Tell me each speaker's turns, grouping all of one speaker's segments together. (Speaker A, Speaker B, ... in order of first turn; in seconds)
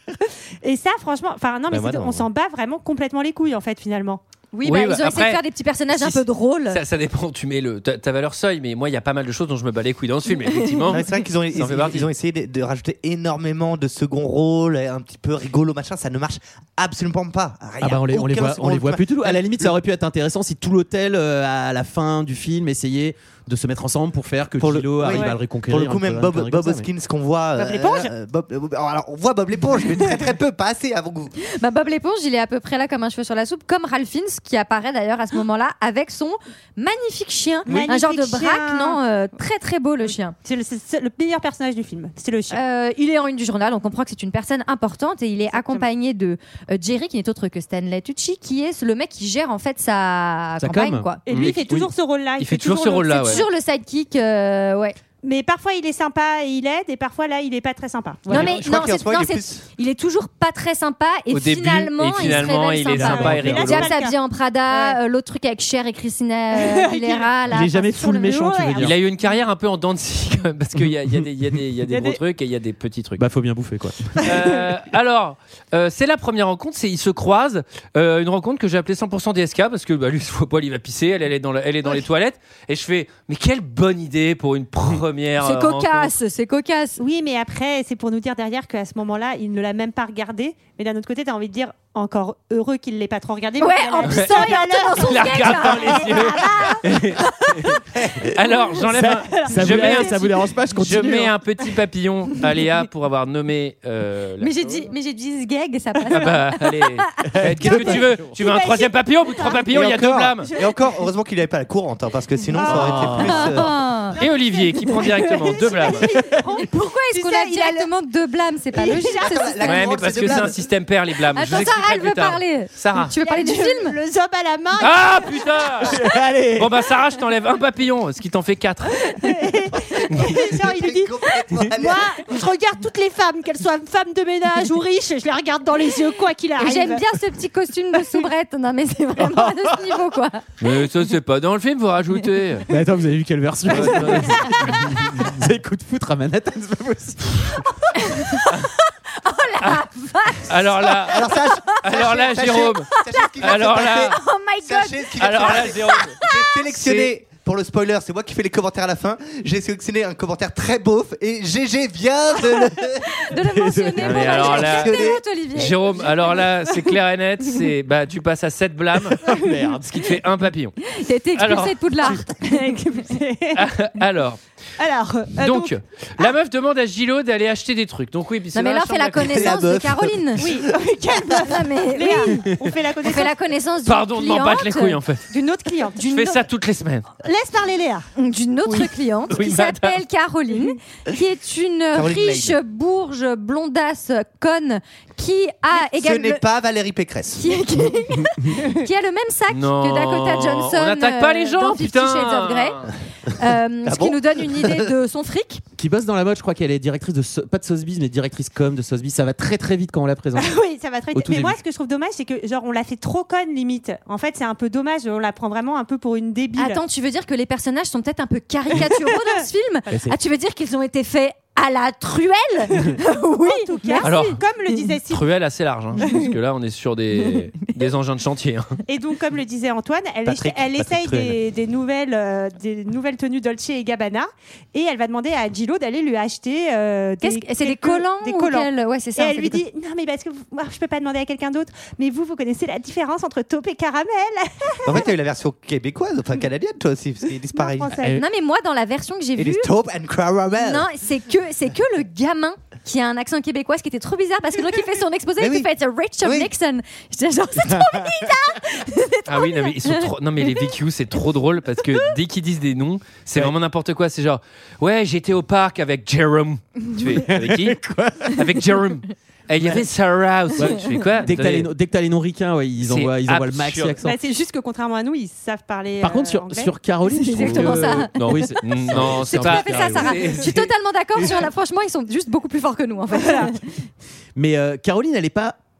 Speaker A: 0.2-4.2, 27.6-28.1, 37.7-39.0, 40.0-42.6, 45.5-45.9, 51.3-53.5, 55.2-58.5, 63.0-64.2, 64.7-65.0, 66.5-67.6, 68.1-68.9, 71.9-72.2, 87.0-96.8, 99.3-100.3, 108.2-109.7, 110.4-111.0, 112.5-113.3, 114.1-117.9, 118.7-119.5, 123.2-126.1, 129.1-137.0, 169.2-169.5, 172.3-173.7, 174.8-176.3, 180.4-183.4, 185.3-186.4, 187.2-188.1, 210.3-216.8, 218.8-219.3, 223.4-225.3, 228.9-245.1, 247.5-248.2, 274.0-278.0, 283.1-283.5
Speaker B: 1.7-2.3, 10.9-19.7, 24.6-31.3, 58.3-59.6, 109.7-113.7, 119.1-120.6, 129.7-132.2, 151.1-163.2, 164.2-165.2, 179.2-180.7, 191.9-192.6, 195.7-197.5, 203.8-204.9, 230.2-231.4, 244.8-247.9, 249.4-250.9, 255.4-255.7, 256.2-256.5
Speaker C: 4.5-6.8, 10.5-11.0, 31.4-40.3, 42.5-51.5, 53.1-55.0, 58.3-68.5, 85.4-87.0, 93.6-97.5, 104.4-108.0, 113.1-114.2, 116.5-120.0, 121.3-124.0, 136.6-140.4, 144.5-144.8, 147.9-156.7, 163.2-165.8, 170.8-172.3, 178.5-180.5, 181.3-185.0, 188.2-196.4, 197.3-205.6, 216.6-224.3, 226.0-226.3, 237.2-239.6, 248.1-249.7, 250.6-260.7, 277.0-283.6
Speaker D: 4.6-12.1, 52.4-53.4, 61.3-63.9, 68.8-73.2, 74.2-86.1, 94.0-94.3, 95.0-97.2, 98.3-104.5, 106.1-110.5, 112.7-113.2, 114.2-116.1, 119.6-123.1, 124.8-126.0, 126.5-129.0, 130.1-130.3, 140.6-142.7, 143.7-144.8, 150.4-151.3, 151.8-154.2, 155.2-156.2, 156.8-157.1, 164.0-164.9, 165.5-170.8, 171.3-171.8, 173.5-174.4, 175.4-179.4, 183.8-185.2, 186.0-187.1, 189.3-190.0, 199.5-202.9, 224.0-224.4, 225.1-228.7, 259.3-271.7, 272.8-274.0, 278.6-280.7
Speaker E: 17.8-26.9, 50.6-51.9, 62.9-63.7, 67.5-69.0, 73.2-74.7, 98.9-101.3, 107.3-108.2, 112.7-113.2, 126.0-126.7, 139.2-139.7, 142.7-147.6, 163.5-164.4, 169.2-170.1, 205.8-210.5, 211.1-211.6, 219.9-220.2, 257.6-258.1, 267.1-268.6, 269.6-269.8, 270.6-274.1, 276.0-280.5, 284.4-285.6